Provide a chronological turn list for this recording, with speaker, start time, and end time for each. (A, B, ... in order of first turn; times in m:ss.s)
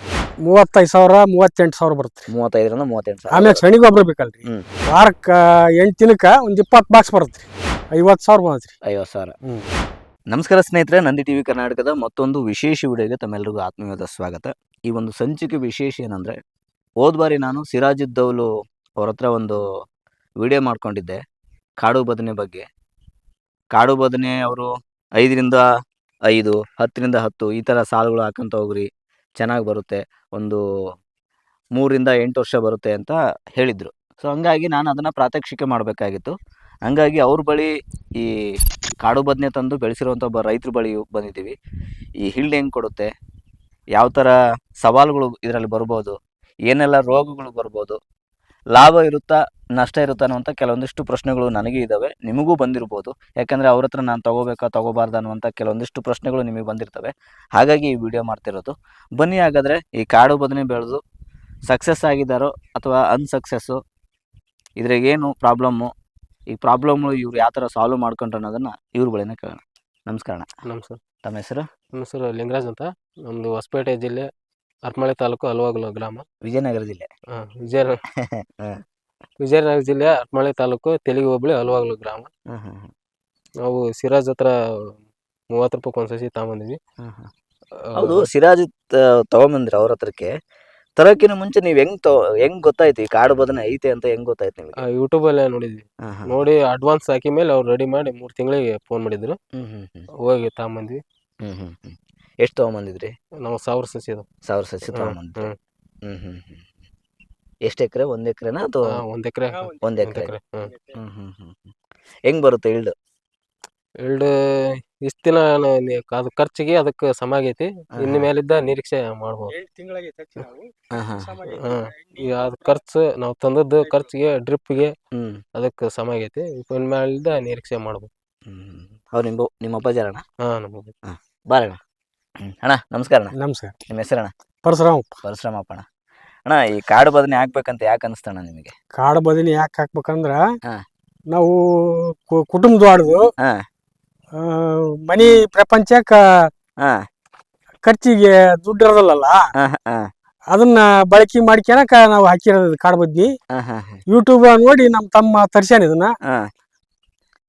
0:00.5-0:02.3 A
0:02.3-0:03.6 B
0:03.3-0:08.7 A
0:08.9-0:09.4 B
0:10.3-0:16.4 B
0:17.0-0:19.6 B
0:20.4-0:21.2 B
0:21.8-0:22.6 B
0:23.7-0:24.7 B
0:25.2-0:25.6 B
0:26.3-0:28.9 B
0:29.4-0:30.6 B
0:31.8-0:36.3 B
0:36.8-0:38.3 B
0:39.0-0:41.6 B
0:42.2-0:43.1 B
0:44.0-0:46.2 B
0:46.7-0:48.0 B
0:48.7-1:01.0 B
1:01.7-1:03.8 B
1:04.8-1:05.9 B
1:06.5-1:10.5 B
1:10.7-1:11.0 C
1:11.2-1:11.7 B
1:11.9-1:14.3 C
1:14.9-1:16.2 C
1:16.4-1:17.1 B
1:17.4-1:18.0 C
1:18.2-1:18.8 B
1:19.4-1:22.3 C
1:22.5-1:22.9 B
1:23.6-1:24.5 C
1:25.5-1:26.8 C
1:27.0-1:27.3 B
1:27.9-1:28.3 C
1:28.0-1:30.3 B
1:31.0-1:34.8 B
1:34.8-1:39.4 C
1:36.1-1:36.4 B
1:39.6-1:40.1 B
1:40.2-1:41.0 C
1:41.4-1:43.1 B
1:43.4-1:44.3 C
1:44.4-1:45.5 B
1:44.9-1:45.6 C
1:46.1-1:46.6 B
1:47.6-1:49.0 B
1:48.9-1:50.7 C
1:49.5-1:50.0 A
1:49.8-1:50.3 B
1:50.6-1:51.0 A
1:51.0-1:51.7 B
1:52.3-1:52.9 B
1:54.0-1:59.5 C
1:58.0-1:58.3 B
1:59.5-2:02.8 A
2:00.9-2:01.3 B
2:01.5-2:05.0 C
2:03.8-2:04.1 A
2:05.1-2:05.4 B
2:05.6-2:08.1 C
2:08.5-2:10.2 B
2:10.5-2:10.9 C
2:11.1-2:11.8 B
2:12.4-2:13.3 B
2:13.4-2:13.7 A
2:13.9-2:14.3 B
2:14.6-2:15.2 A
2:15.2-2:15.8 B
2:16.5-2:18.7 B
2:19.0-2:20.4 A
2:21.3-2:23.3 A
2:24.4-2:26.5 A
2:27.8-2:29.4 A
2:29.6-2:30.1 B
2:30.5-2:33.3 A
2:33.5-2:34.0 B
2:34.1-2:36.1 A